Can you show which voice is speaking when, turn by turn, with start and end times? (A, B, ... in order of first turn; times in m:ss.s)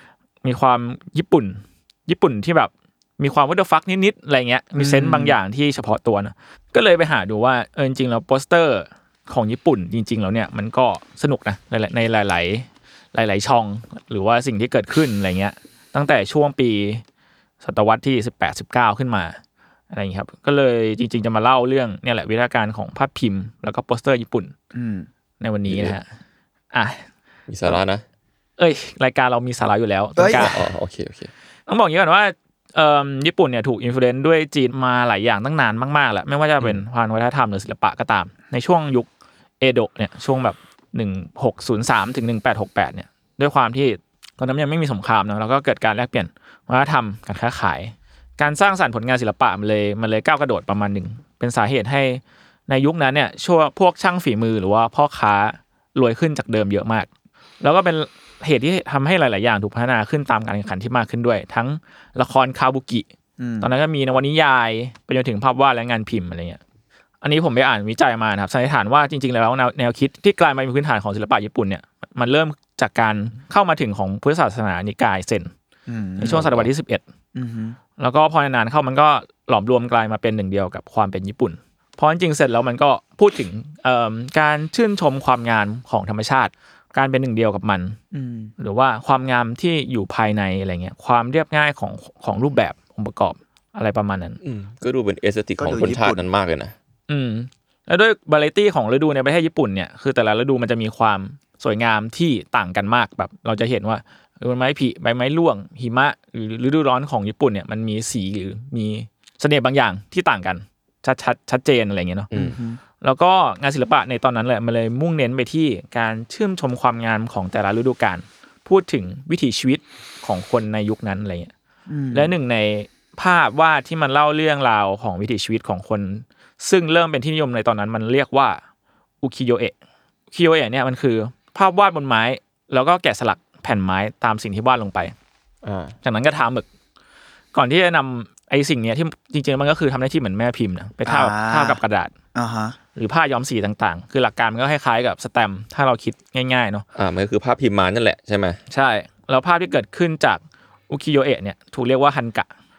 0:00.4-0:17.0 A
0:04.7-0:05.4 B
0:17.6-0:19.4 A
0:19.9-0:24.5 A
0:24.7-0:25.1 B
0:25.4-0:26.0 A
0:25.7-0:26.0 C
0:26.7-0:27.0 A
0:27.5-0:28.0 C
0:28.6-0:30.6 A
0:30.2-0:30.5 B
0:30.4-0:31.3 C
0:31.7-0:39.1 A
0:39.6-0:57.1 A
0:57.6-1:03.1 A
1:03.4-1:03.7 B
1:03.6-1:06.6 A
1:07.2-1:15.5 A
1:15.9-1:16.5 B
1:16.2-1:17.0 A
1:16.3-1:16.7 C
1:17.3-1:17.8 B
1:18.0-1:28.0 A
1:28.1-1:28.5 B
1:28.6-1:34.4 A
1:34.4-1:36.7 C
1:35.6-1:36.2 B
1:37.1-1:52.3 A
1:52.3-1:52.6 C
1:52.3-1:52.8 B
1:53.0-2:01.5 A
2:01.9-2:02.3 B
2:02.1-2:08.6 A
2:09.2-2:09.7 A
2:10.3-2:15.1 A
2:15.6-2:15.9 C
2:16.0-2:16.7 A
2:17.5-2:22.1 A
2:21.0-2:21.8 B
2:22.3-2:22.8 B
2:23.0-2:26.8 A
2:27.0-2:28.6 C
2:28.7-2:32.5 A